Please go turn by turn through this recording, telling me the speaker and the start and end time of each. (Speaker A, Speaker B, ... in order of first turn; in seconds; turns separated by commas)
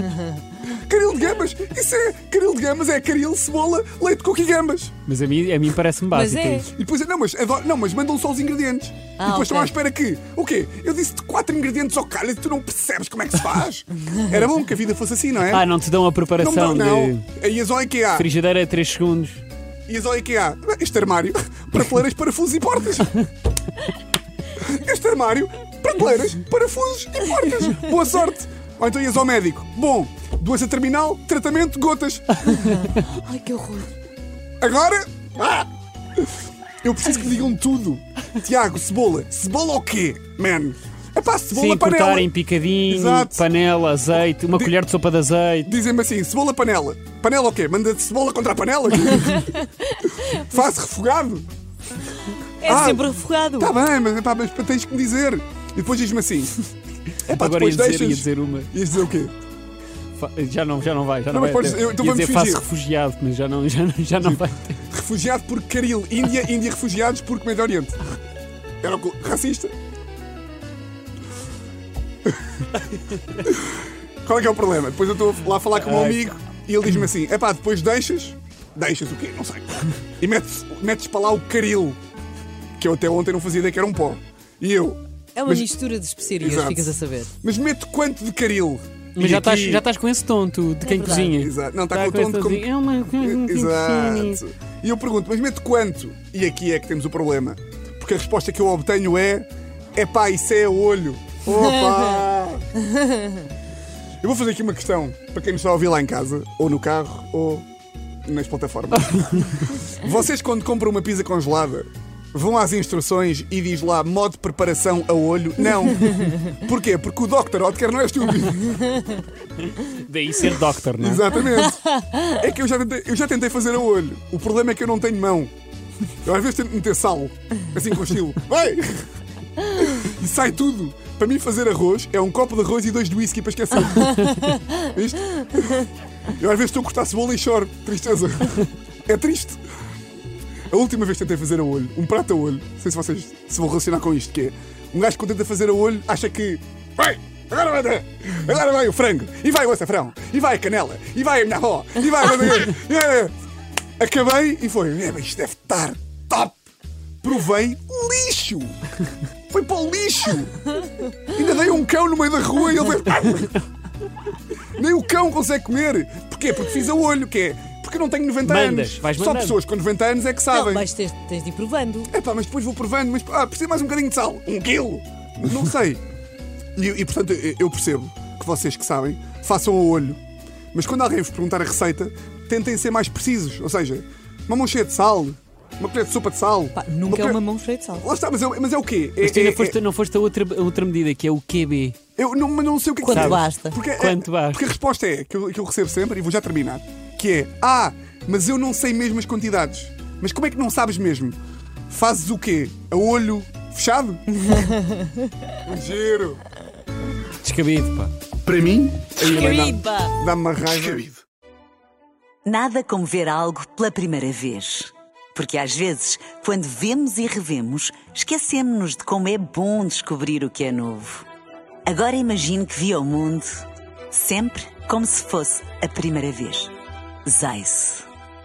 Speaker A: 0.7-4.9, Speaker B: 5.1-6.7, Speaker C: 6.1-6.7, Speaker A: 6.7-15.7, Speaker C: 9.2-9.7, Speaker B: 15.5-17.3, Speaker A: 16.4-18.3, Speaker B: 18.1-19.4, Speaker A: 19.9-23.1, Speaker A: 24.6-32.4, Speaker C: 32.5-33.9, Speaker A: 34.6-42.3, Speaker B: 41.5-45.7, Speaker A: 42.9-43.5, Speaker A: 45.6-49.5, Speaker C: 49.3-50.4, Speaker A: 50.1-51.5, Speaker C: 52.6-53.7, Speaker A: 52.6-56.5, Speaker A: 57.2-59.4, Speaker B: 57.3-58.7, Speaker B: 60.2-64.8, Speaker A: 61.3-62.6, Speaker A: 64.9-68.0, Speaker A: 68.8-69.7, Speaker A: 73.5-82.0, Speaker B: 75.7-76.2, Speaker A: 82.8-85.7, Speaker C: 85.4-87.3, Speaker A: 86.4-89.8, Speaker B: 89.2-94.4, Speaker C: 90.8-91.3, Speaker A: 91.3-92.7, Speaker A: 93.2-102.7, Speaker C: 102.9-103.3, Speaker A: 104.2-107.7, Speaker A: 108.3-119.0, Speaker B: 109.1-109.6, Speaker B: 119.6-121.4, Speaker A: 121.0-125.5, Speaker C: 121.9-122.3, Speaker A: 126.2-129.1, Speaker A: 129.6-139.6, Speaker A: 140.7-153.3, Speaker A: 154.0-156.6, Speaker A: 157.2-158.8, Speaker A: 159.5-160.7, Speaker A: 161.2-163.6, Speaker A: 164.8-170.9, Speaker B: 168.4-169.6, Speaker C: 170.5-172.1, Speaker A: 172.1-176.0, Speaker A: 176.8-180.2, Speaker A: 180.7-187.4, Speaker C: 186.8-188.1, Speaker A: 188.0-189.8, Speaker B: 189.2-192.0, Speaker A: 192.2-201.4, Speaker C: 193.0-193.8, Speaker B: 193.1-194.7, Speaker A: 201.9-204.4, Speaker C: 204.4-205.5, Speaker A: 205.6-206.4, Speaker B: 207.4-208.1, Speaker A: 208.4-211.2, Speaker C: 209.2-210.2, Speaker D: 212.4-221.3, Speaker D: 221.9-226.7, Speaker D: 227.3-228.1